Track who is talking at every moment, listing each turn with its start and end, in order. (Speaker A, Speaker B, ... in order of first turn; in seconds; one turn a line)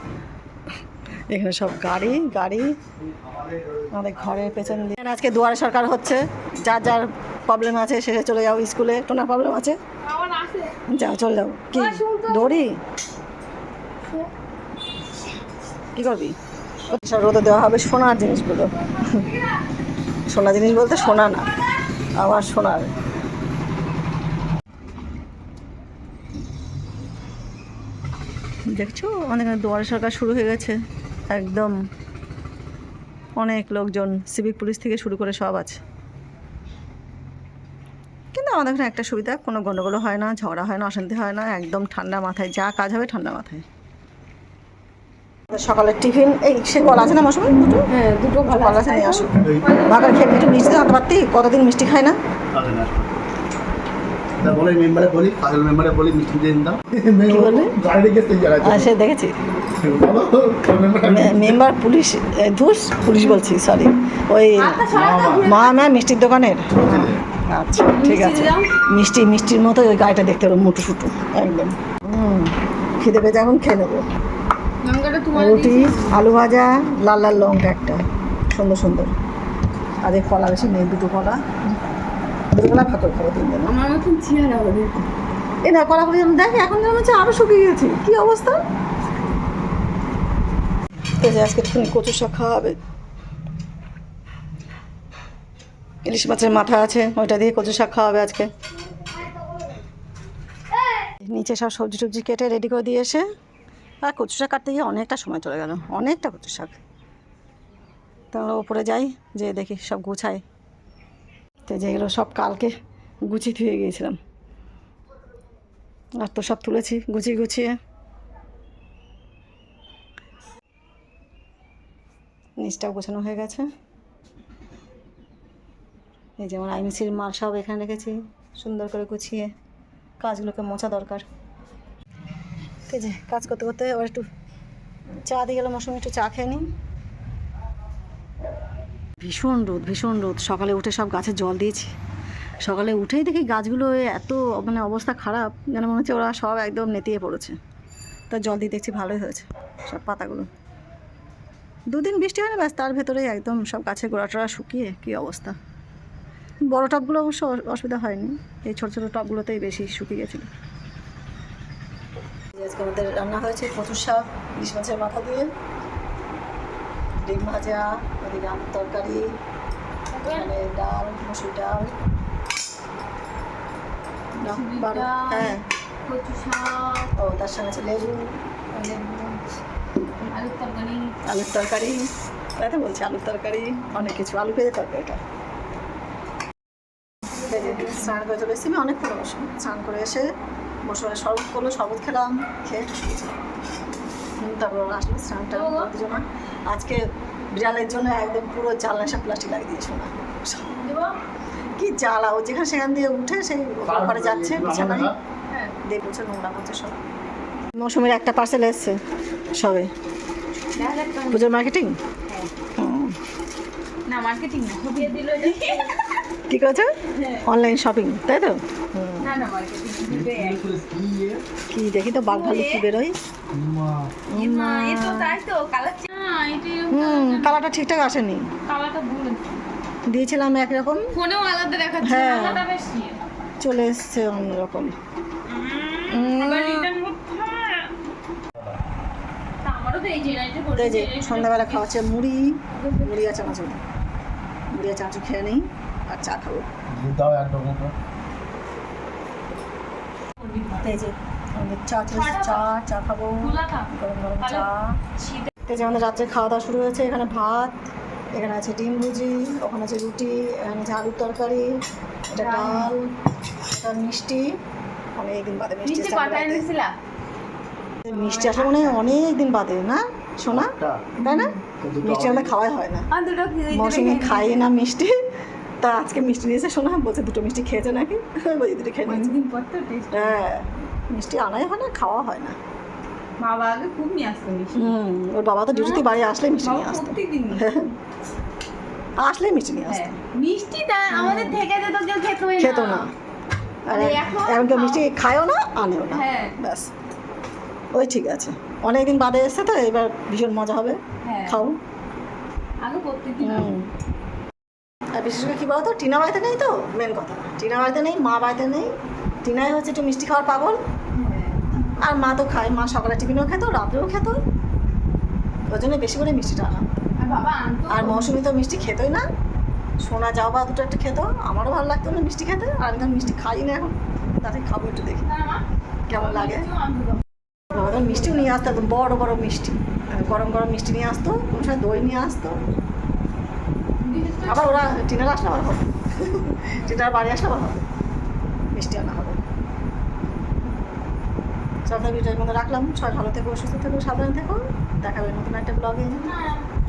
Speaker A: 1.3-2.7
Speaker B: 3.0-4.6
Speaker A: 3.9-9.8
Speaker C: 10.0-10.8
Speaker A: 10.9-12.8
Speaker C: 11.7-12.6
Speaker A: 15.9-16.4
Speaker A: 16.9-19.3
Speaker A: 20.3-21.5
Speaker A: 22.2-22.9
Speaker A: 28.7-30.8
Speaker A: 31.3-31.7
Speaker A: 33.4-35.8
Speaker A: 38.3-43.6
Speaker A: 45.5-47.9
Speaker C: 47.9-50.6
Speaker A: 48.4-52.2
Speaker B: 49.4-49.6
Speaker B: 52.5-53.1
Speaker B: 54.4-58.9
Speaker A: 57.3-57.8
Speaker A: 58.6-59.3
Speaker B: 59.8-61.6
Speaker A: 61.0-74.0
Speaker C: 64.5-65.9
Speaker B: 64.9-65.5
Speaker B: 66.8-67.2
Speaker C: 67.9-68.8
Speaker C: 74.8-76.4
Speaker A: 75.3-79.1
Speaker A: 80.0-81.4
Speaker A: 82.5-83.7
Speaker C: 83.7-85.1
Speaker A: 85.6-88.6
Speaker A: 91.2-92.8
Speaker A: 96.0-98.5
Speaker A: 101.3-103.2
Speaker A: 104.0-106.8
Speaker A: 108.3-110.4
Speaker A: 111.7-112.7
Speaker A: 113.2-114.2
Speaker A: 116.2-117.7
Speaker A: 122.6-123.7
Speaker A: 126.4-129.5
Speaker A: 130.2-131.2
Speaker A: 132.9-134.2
Speaker A: 135.3-136.7
Speaker A: 139.2-141.9
Speaker A: 142.6-147.5
Speaker A: 148.3-150.5
Speaker A: 151.9-155.5
Speaker A: 156.7-160.5
Speaker A: 162.5-165.5
Speaker A: 167.2-169.2
Speaker C: 170.1-170.5
Speaker A: 170.2-171.9
Speaker A: 174.4-175.6
Speaker C: 174.4-177.1
Speaker A: 177.2-178.4
Speaker C: 178.7-179.4
Speaker C: 180.2-181.1
Speaker A: 181.2-185.2
Speaker C: 187.4-188.2
Speaker A: 187.4-190.3
Speaker A: 190.8-193.3
Speaker A: 194.4-197.0
Speaker C: 195.5-195.9
Speaker A: 197.6-200.8
Speaker C: 200.7-201.1
Speaker A: 201.8-205.1
Speaker B: 203.8-205.1
Speaker A: 205.8-207.0
Speaker A: 207.8-209.0
Speaker A: 209.6-209.9
Speaker C: 210.7-211.5
Speaker A: 211.3-211.9
Speaker A: 212.8-213.1
Speaker C: 214.1-216.2
Speaker A: 216.5-219.3
Speaker C: 217.1-217.4
Speaker C: 219.2-220.7
Speaker B: 220.1-221.4
Speaker A: 221.7-223.2
Speaker C: 222.1-222.8
Speaker B: 223.5-224.1
Speaker A: 224.3-225.4
Speaker C: 224.3-227.6
Speaker A: 226.9-228.5
Speaker C: 228.7-229.6
Speaker A: 230.1-231.1
Speaker C: 231.1-233.2
Speaker A: 232.0-232.7
Speaker A: 233.6-234.9
Speaker C: 235.5-237.9
Speaker A: 236.1-236.9
Speaker C: 239.6-242.0
Speaker A: 240.7-243.8
Speaker C: 242.7-243.5
Speaker A: 244.7-246.7
Speaker B: 246.9-247.9
Speaker C: 250.4-250.9
Speaker A: 250.8-255.0
Speaker C: 252.1-252.7
Speaker C: 253.4-253.9
Speaker C: 254.4-254.7
Speaker C: 255.2-255.5
Speaker A: 255.7-257.8
Speaker A: 258.3-261.7
Speaker A: 262.3-263.0
Speaker C: 262.4-263.1
Speaker A: 263.7-264.5
Speaker A: 265.2-266.6
Speaker C: 265.8-266.9
Speaker A: 268.1-273.1
Speaker C: 268.1-269.0
Speaker B: 270.5-271.1
Speaker C: 271.2-271.6
Speaker B: 271.8-272.5
Speaker C: 273.1-274.7
Speaker A: 273.7-275.1
Speaker A: 275.8-279.3
Speaker C: 279.1-280.4
Speaker A: 280.1-282.6
Speaker C: 283.4-284.9
Speaker A: 284.7-287.9
Speaker C: 285.7-286.1
Speaker C: 286.6-287.7
Speaker A: 289.2-290.2
Speaker C: 289.9-293.1
Speaker A: 291.1-291.6
Speaker A: 292.6-293.1
Speaker A: 293.9-296.9
Speaker C: 293.9-295.1
Speaker C: 296.1-296.6
Speaker A: 297.9-301.8
Speaker C: 301.2-301.6
Speaker C: 302.8-303.7
Speaker A: 303.4-303.9
Speaker A: 305.1-308.9
Speaker A: 309.4-310.8
Speaker C: 311.1-311.9
Speaker A: 312.0-314.4
Speaker A: 315.7-316.9
Speaker C: 317.2-318.3
Speaker A: 317.9-319.2
Speaker A: 320.0-325.2
Speaker C: 325.2-325.6
Speaker A: 326.1-326.7
Speaker C: 326.1-328.5
Speaker A: 327.7-332.6
Speaker C: 334.0-334.9
Speaker A: 334.4-337.9
Speaker A: 338.7-339.4
Speaker A: 341.9-346.3
Speaker C: 346.2-346.6